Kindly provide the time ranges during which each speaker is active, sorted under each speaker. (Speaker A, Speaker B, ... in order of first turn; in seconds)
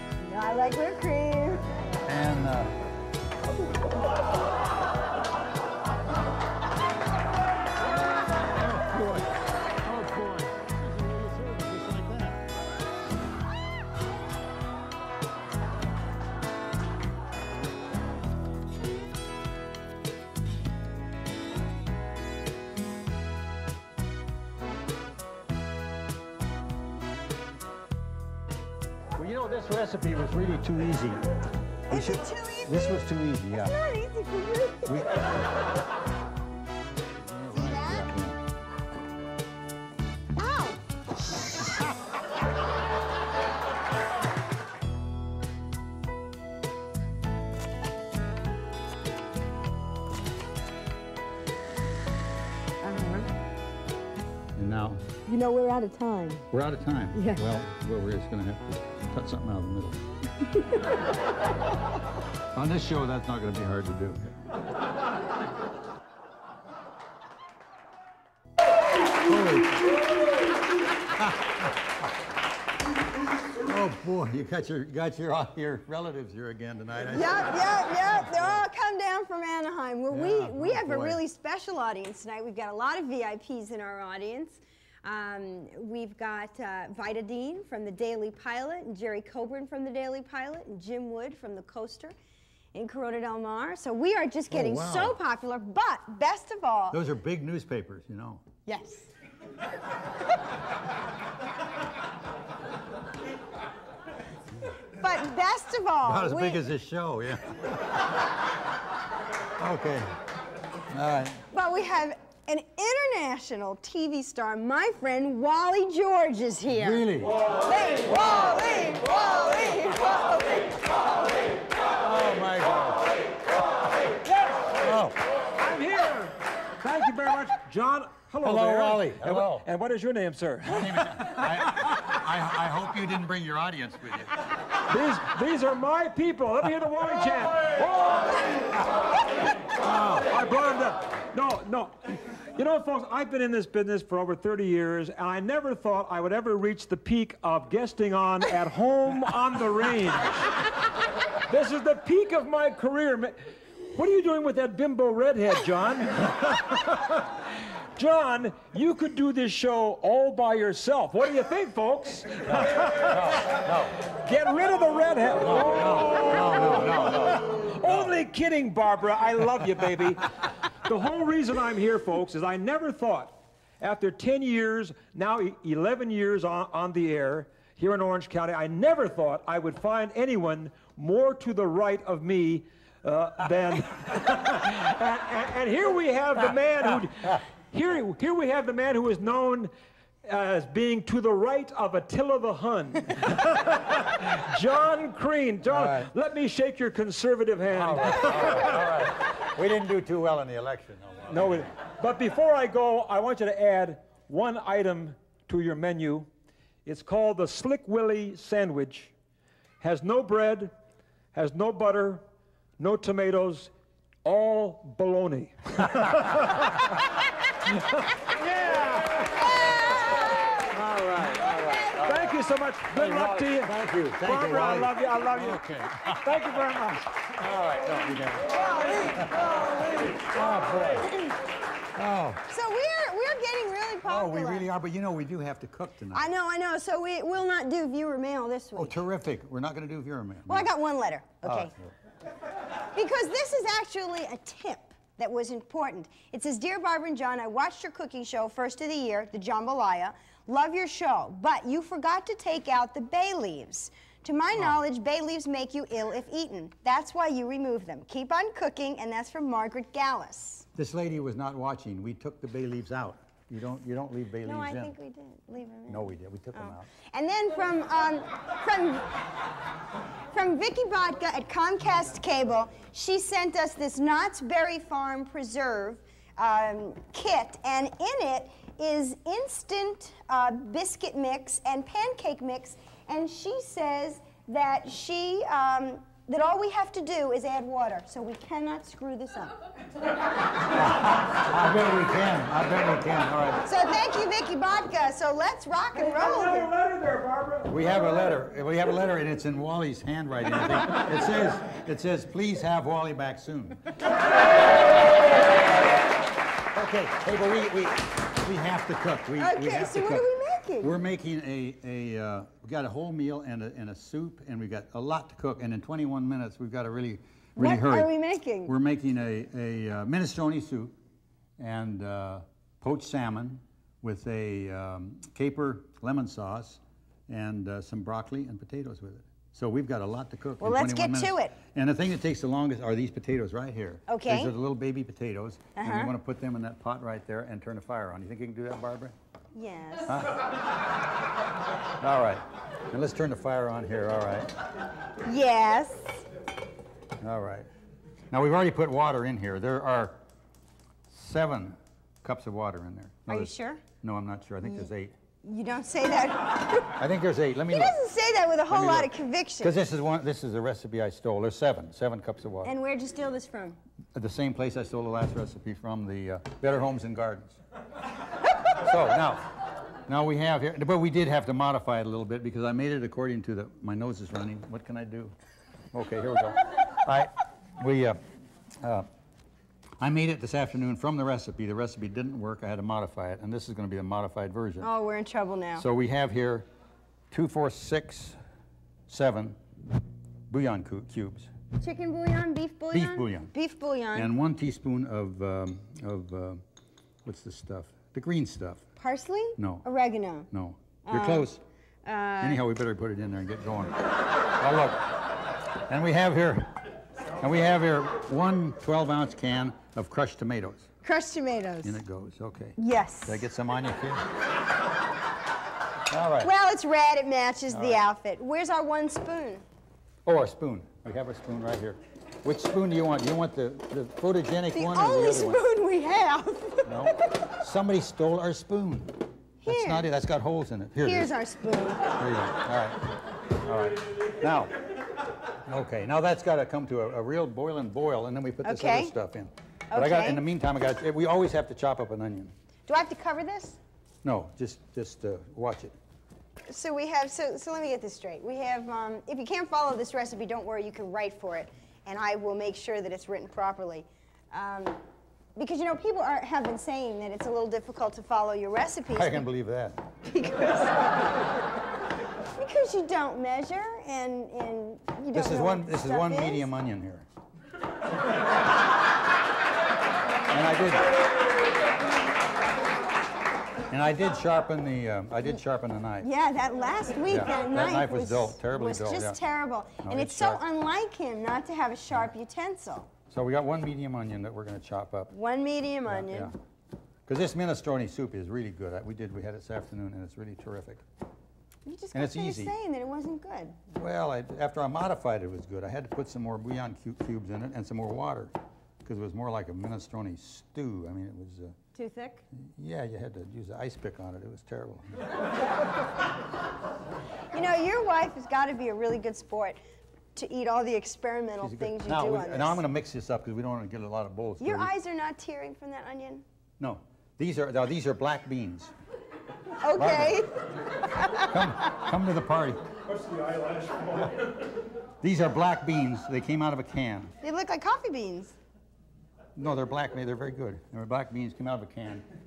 Speaker A: 0.2-1.7, 31.9-35.0, 37.5-38.1, 40.4-40.8, 52.8-53.3, 55.2-56.5, 57.1-57.4, 77.1-92.1, 92.7-97.0, 98.7-99.1, 105.0-106.6, 111.5-117.1, 117.6-120.8, 232.5-234.7, 236.1-239.0, 240.5-241.7, 242.9-260.7, 264.4-269.2, 270.3-289.6, 293.6-296.7, 309.4-310.9, 317.6-318.7, 330.6-331.5, 334.1-334.5, 335.8-336.1, 339.5-340.2, 345.2-346.2, 353.3-353.8, 355.4-357.0, 357.7-359.8, 362.6-363.8, 384.8-385.9, 391.8-394.3, 399.0-400.5, 401.0-401.5, 402.0-402.6, 411.0-412.0, 412.8-413.5, 416.4-419.6, 424.7-427.4, 429.6-430.1, 431.0-432.1, 438.6-439.1, 439.9-440.4, 442.9-443.8, 446.7-455.0, 455.6-459.4, 460.2-461.1, 462.5-466.7, 476.2-483.1, 485.3-486.5, 491.9-493.8, 501.9-502.4, 507.5-509.8, 510.3-512.8, 514.6-516.4, 519.8-521.7, 527.4-528.5
Speaker B: 2.0-2.8, 8.5-12.4, 29.1-31.2, 31.9-33.8, 34.9-35.4, 37.2-38.4, 54.5-55.0, 56.5-60.1, 62.5-64.4, 69.2-70.0, 71.0-71.8, 73.6-78.6, 80.1-81.2, 94.5-95.2, 96.9-98.4, 106.0-108.0, 109.6-110.1, 110.9-111.4, 116.7-117.4, 121.9-123.1, 124.8-125.2, 128.4-129.7, 130.6-134.4, 162.5-164.0, 165.4-168.2, 195.7-196.1, 197.7-201.7, 220.7-226.5, 227.2-231.3, 231.9-232.4, 234.0-236.3, 238.8-240.7, 241.4-241.9, 260.8-264.9, 265.9-266.9, 290.6-293.6, 297.7-303.9, 306.7-310.2, 310.8-318.1, 318.6-320.9, 321.6-339.1, 340.1-340.3, 342.0-344.5, 347.2-347.7, 348.3-350.2, 351.1-355.1, 356.9-358.0, 358.7-362.7, 364.1-367.6, 368.7-375.4, 375.9-378.2, 378.8-379.1, 380.0-384.9, 385.8-386.7, 387.3-388.4, 389.1-389.6, 390.5-391.5, 392.9-393.5, 394.1-396.6, 397.2-398.8, 399.6-399.8, 400.5-401.6, 402.4-405.2, 405.9-406.7, 407.4-410.9, 411.8-414.3, 416.1-416.5, 417.7-418.1, 420.2-425.6, 426.8-431.3, 432.1-433.1, 433.6-434.7, 435.6-442.5, 444.2-445.9, 459.1-460.0, 465.3-467.3, 470.5-471.1, 473.9-476.3, 477.3-479.4, 480.0-480.6, 483.3-485.3, 486.1-486.5, 487.2-491.0, 492.1-492.7, 493.9-501.8, 502.5-505.3, 511.6-514.9, 516.8-518.9, 520.0-520.5, 521.2-522.8, 525.2-527.3, 529.5-532.2
Speaker C: 124.3-124.8, 125.5-131.9, 134.9-138.8, 139.7-150.9, 151.5-153.4, 153.9-163.4, 164.0-189.7, 190.2-198.8, 201.3-206.3, 206.8-209.1, 209.8-210.7, 211.3-212.2, 212.8-213.7, 214.2-219.9, 222.0-227.2, 228.7-230.3, 296.0-297.8, 523.1-524.5